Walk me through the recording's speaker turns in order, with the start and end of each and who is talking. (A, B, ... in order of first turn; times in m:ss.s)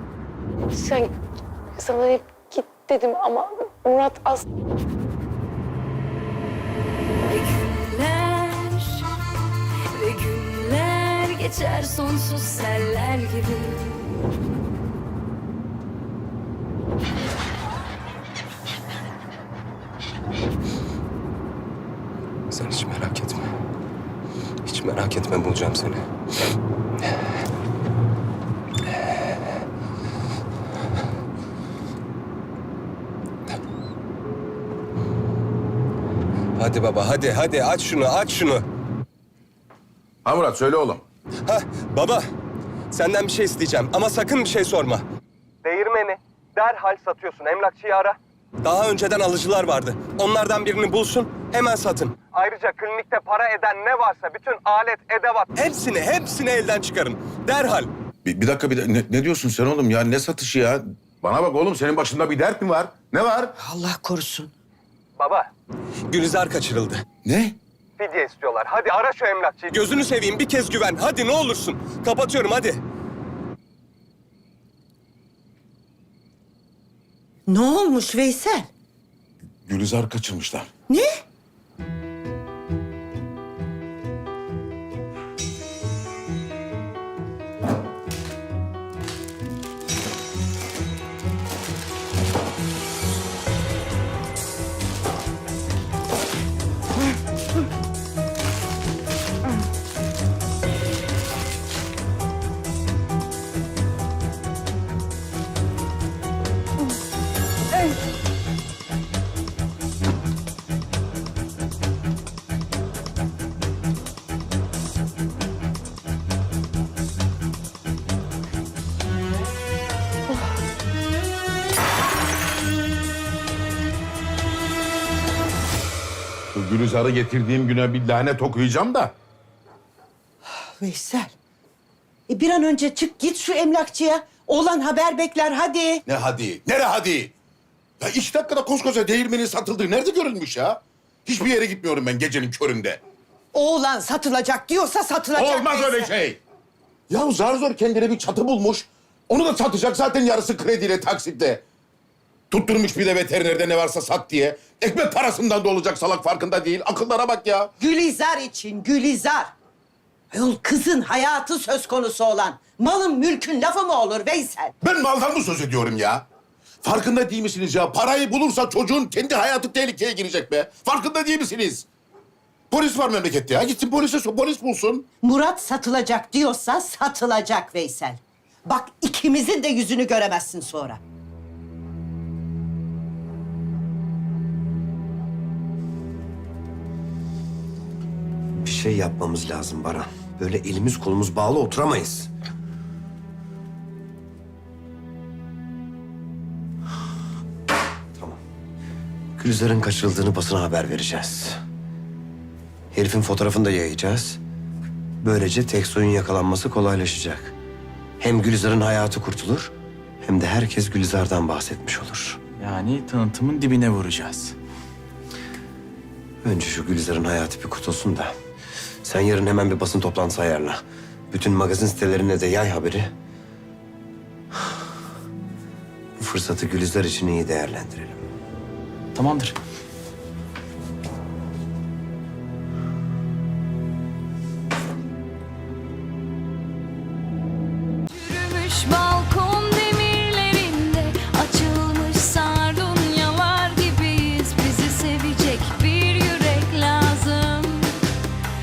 0:00.7-0:01.1 A
0:01.8-0:04.4 A
0:07.3-0:09.1 B
0:09.9-0:14.3 B
0:22.5-0:23.5 C
0:24.6-0:26.0 C
0:36.6-0:38.6 C
0:40.2-0:41.0 D
0:41.5-0:42.2 C
0:42.9-0:45.0 C
0:45.6-0:57.9 C
0:58.2-1:03.5 D
1:03.6-1:04.5 E
1:05.2-1:05.5 C
1:06.1-1:07.0 C
1:07.2-1:07.6 D
1:08.0-1:12.8 C
1:17.5-1:18.7 E
1:19.7-1:20.7 D
2:06.5-2:09.1 D
2:10.6-2:11.3 E
2:12.3-2:16.0 E
2:16.1-2:17.3 D
2:18.0-2:23.0 D
2:23.5-2:26.1 E
2:25.4-2:26.4 D
2:27.1-2:31.6 D
2:32.5-2:37.7 D
2:37.8-2:39.5 E
2:40.3-2:44.7 E
2:44.8-2:46.3 D
2:46.8-2:51.9 D
2:52.7-2:55.1 D
2:55.2-3:01.0 E
3:08.6-3:12.3 F
3:19.4-3:21.6 F
3:22.9-3:24.4 F
3:25.2-3:27.5 F
3:28.2-3:32.4 F
3:32.6-3:34.6 G
3:36.4-3:38.3 F
3:39.0-3:40.8 F
3:41.3-3:43.1 F
3:46.2-3:48.3 F
3:49.1-3:49.6 G
3:58.1-4:08.0 B